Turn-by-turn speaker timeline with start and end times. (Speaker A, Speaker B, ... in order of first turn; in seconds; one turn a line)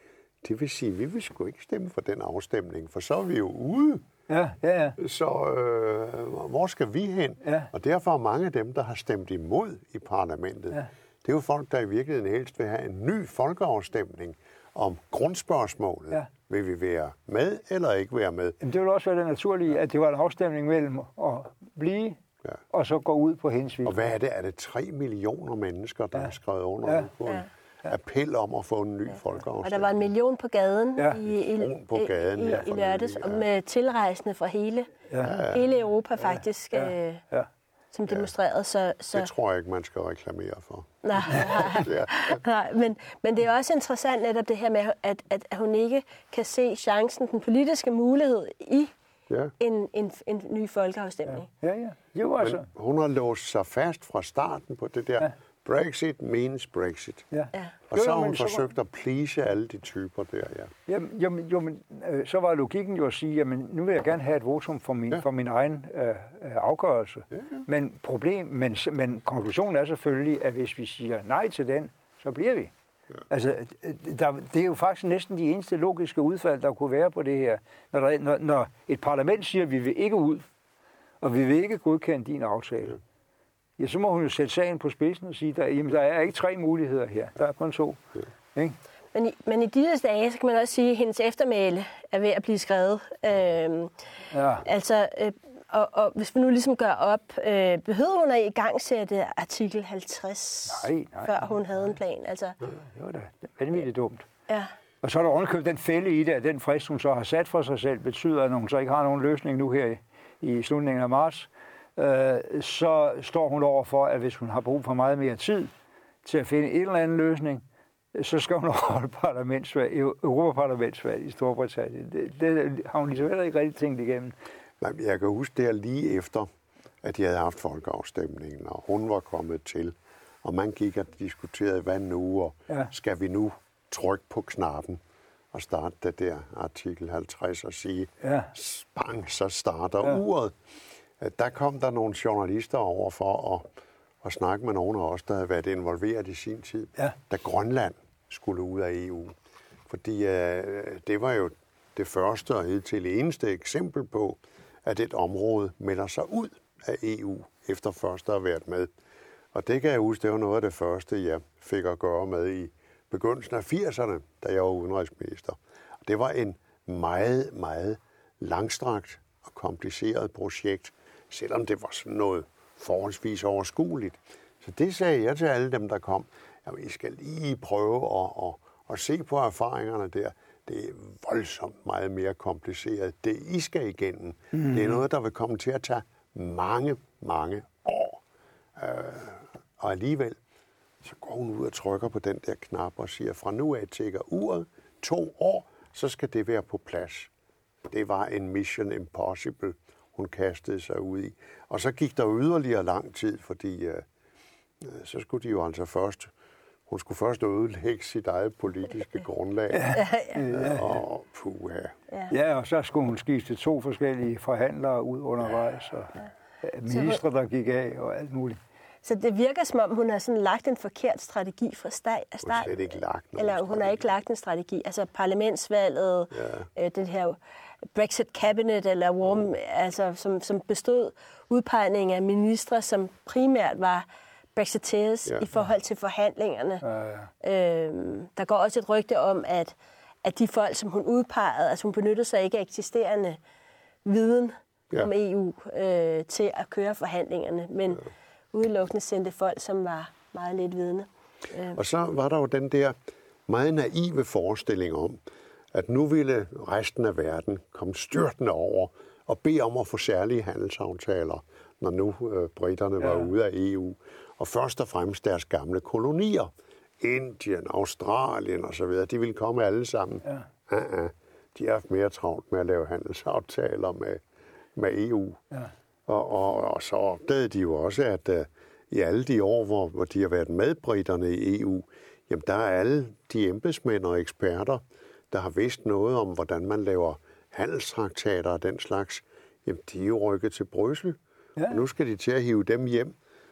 Speaker A: 0.4-4.0
Speaker B: 4.3-5.0
Speaker A: 5.0-18.6
Speaker B: 7.4-7.7
Speaker B: 18.6-22.2
Speaker B: 22.7-24.1
Speaker A: 23.9-30.1
Speaker B: 26.9-27.1
Speaker C: 29.6-37.2
Speaker A: 31.2-33.5
Speaker B: 35.1-35.4
Speaker A: 35.2-35.6
Speaker B: 36.7-37.5
Speaker C: 37.9-39.3
Speaker A: 39.1-42.4
Speaker C: 41.0-48.9
Speaker C: 49.6-51.5
Speaker B: 51.3-52.7
Speaker A: 52.4-57.3
Speaker B: 57.3-58.6
Speaker A: 57.9-60.7
Speaker B: 60.9-72.7
Speaker B: 73.3-80.5
Speaker B: 81.2-83.0
Speaker B: 83.8-88.0
Speaker C: 89.1-93.9
Speaker B: 94.3-94.7
Speaker C: 94.6-102.6
Speaker B: 100.7-101.5
Speaker B: 102.7-104.3
Speaker B: 105.0-115.7
Speaker B: 116.2-124.3
Speaker A: 124.8-126.5
Speaker A: 127.0-135.0
Speaker A: 135.5-140.6
Speaker B: 138.2-138.5
Speaker A: 141.2-143.7
Speaker A: 144.2-149.3
Speaker A: 149.9-158.9
Speaker A: 159.5-188.2
Speaker B: 184.5-185.0
Speaker A: 188.8-190.4
Speaker A: 191.0-197.3
Speaker A: 197.9-204.1
Speaker A: 204.8-206.3
Speaker A: 206.9-212.0
Speaker B: 209.7-211.0
Speaker C: 210.0-210.3
Speaker B: 212.3-218.6
Speaker C: 216.9-217.2
Speaker C: 219.0-227.4
Speaker A: 222.4-224.0
Speaker A: 226.3-226.7
Speaker C: 227.9-236.8
Speaker B: 236.8-237.3
Speaker C: 237.4-243.4
Speaker C: 244.1-251.8
Speaker A: 251.8-252.9
Speaker A: 253.5-255.2
Speaker A: 255.7-274.2
Speaker B: 263.0-263.3
Speaker A: 274.8-275.4
Speaker A: 276.1-293.1
Speaker B: 291.6-291.8